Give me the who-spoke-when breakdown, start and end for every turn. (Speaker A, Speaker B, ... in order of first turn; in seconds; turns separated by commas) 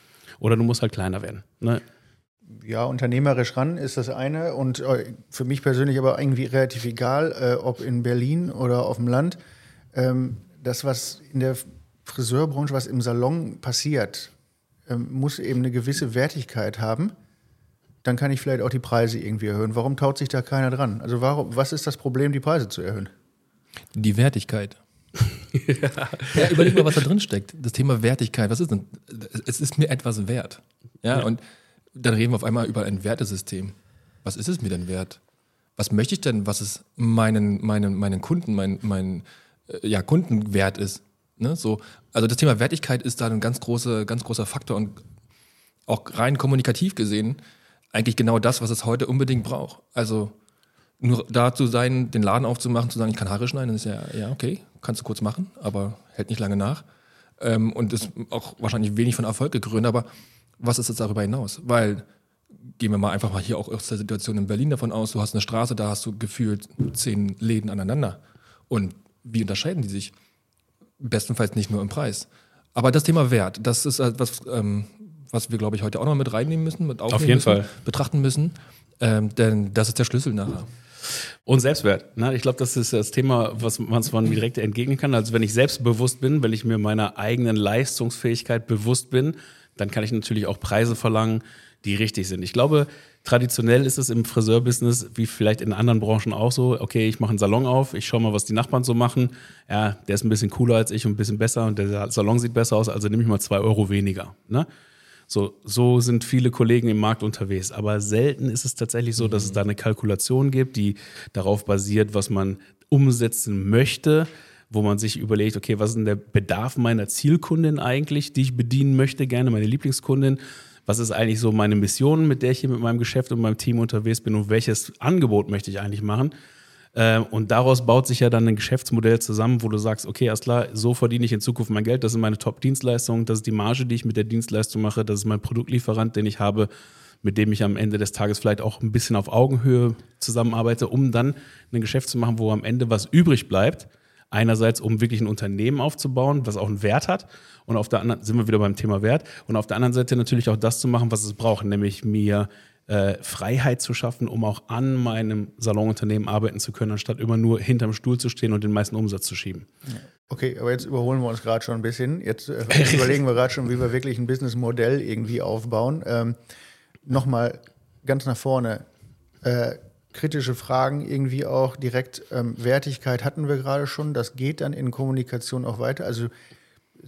Speaker A: 0.4-1.8, Speaker B: 2.5-9.4, Speaker B: 9.9-14.3, Speaker B: 14.9-17.1, Speaker B: 18.0-23.1, Speaker C: 23.9-24.8, Speaker A: 25.5-26.8, Speaker C: 26.3-31.4, Speaker C: 31.9-35.2, Speaker C: 35.8-45.0, Speaker C: 45.9-47.4, Speaker C: 47.9-50.4, Speaker C: 51.0-56.8, Speaker C: 57.4-60.1, Speaker C: 60.6-62.0, Speaker C: 62.8-70.1, Speaker C: 71.0-80.7, Speaker A: 77.1-77.7, Speaker A: 81.5-104.7, Speaker A: 105.3-126.3, Speaker C: 109.2-109.6, Speaker A: 126.9-136.7, Speaker A: 137.2-159.7, Speaker B: 159.9-166.4, Speaker B: 167.1-168.8, Speaker B: 169.4-176.3